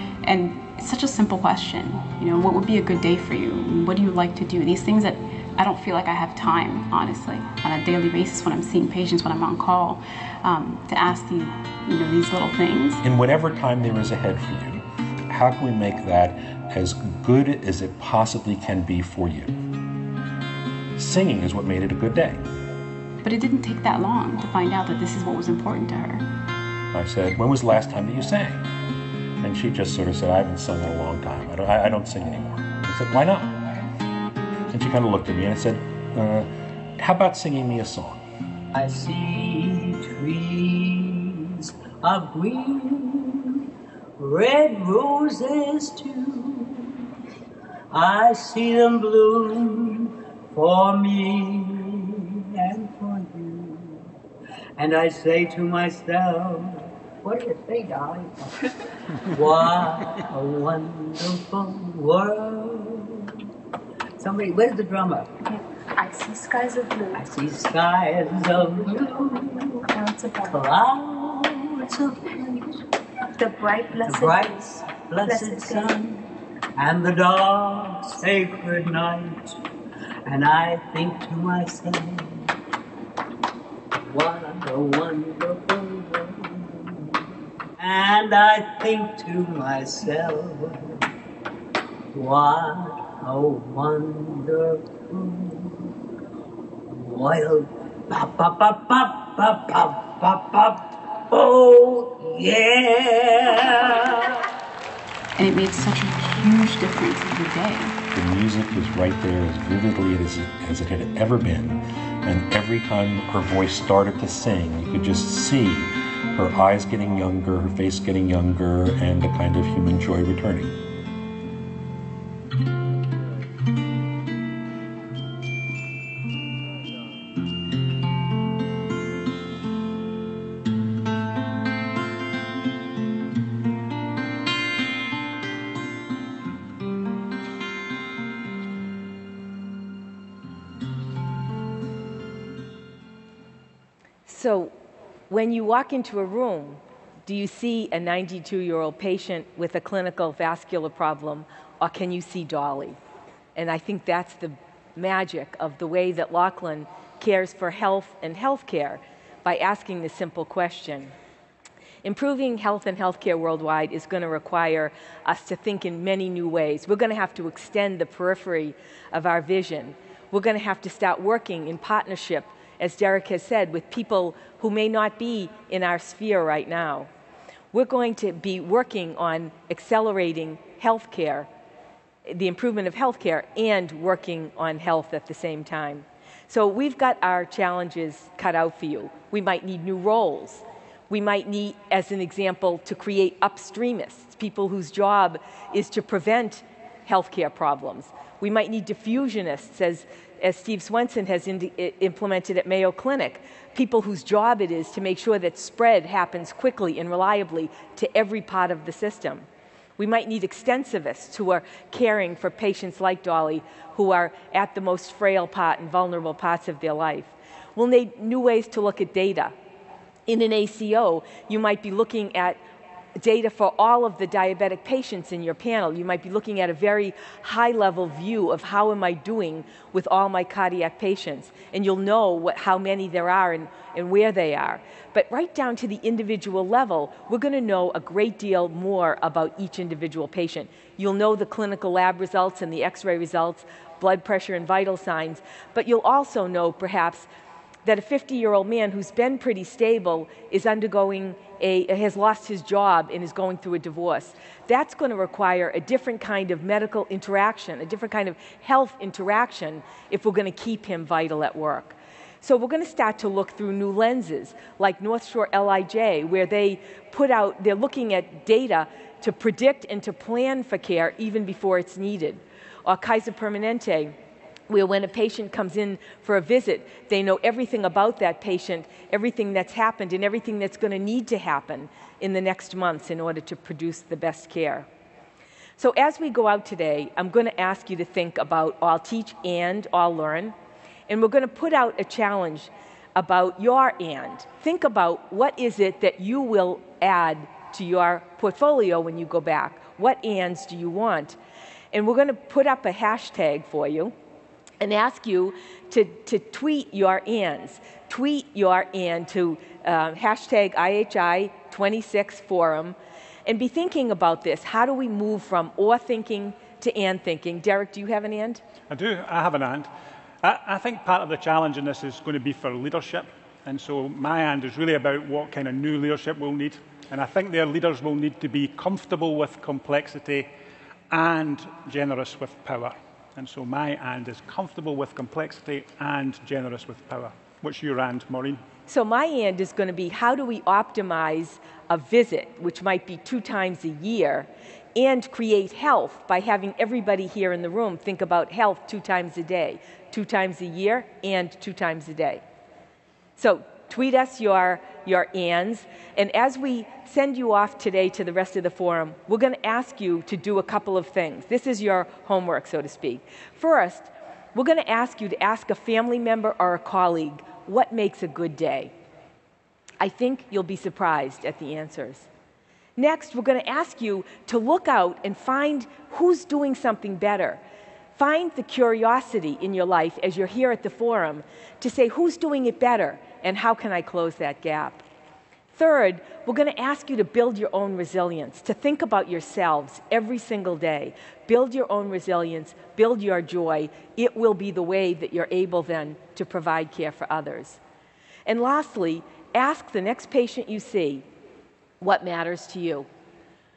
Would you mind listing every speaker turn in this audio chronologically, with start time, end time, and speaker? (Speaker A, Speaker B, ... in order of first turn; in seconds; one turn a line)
Speaker A: 0.2-13.0
Speaker B: 13.0-19.6
Speaker B: 21.0-22.5
Speaker A: 23.2-26.2
Speaker B: 26.9-28.7
Speaker B: 29.4-33.6
Speaker B: 34.7-38.2
Speaker C: 38.7-43.7
Speaker C: 44.2-47.0
Speaker C: 47.9-54.1
Speaker C: 54.8-58.8
Speaker C: 59.3-63.4
Speaker C: 64.2-65.3
Speaker D: 65.5-67.3
Speaker C: 67.2-69.8
Speaker D: 69.9-70.7
Speaker C: 70.5-72.0
Speaker D: 72.1-72.8
Speaker D: 73.4-76.0
Speaker C: 74.0-79.6
Speaker C: 80.3-82.5
Speaker C: 84.0-87.2
Speaker C: 87.8-91.0
Speaker C: 92.1-95.9
Speaker C: 96.9-104.4
Speaker A: 105.4-108.0
Speaker B: 108.1-120.8
Speaker E: 144.3-144.7
Speaker E: 145.3-153.0
Speaker E: 153.6-161.1
Speaker E: 162.0-177.1
Speaker E: 177.7-181.5
Speaker E: 182.3-209.4
Speaker E: 210.0-219.5
Speaker E: 220.3-222.6
Speaker E: 223.2-247.3
Speaker E: 247.8-274.1
Speaker E: 274.7-284.9
Speaker E: 285.8-290.6
Speaker E: 291.1-301.4
Speaker E: 301.9-304.1
Speaker E: 304.8-318.6
Speaker F: 318.9-319.9
Speaker F: 320.4-330.5
Speaker F: 331.1-338.6
Speaker E: 338.9-352.4
Speaker E: 353.4-368.9
Speaker E: 370.0-372.3
Speaker E: 373.0-377.6
Speaker E: 378.2-385.0
Speaker E: 385.8-397.8
Speaker E: 398.5-401.2
Speaker E: 402.0-403.1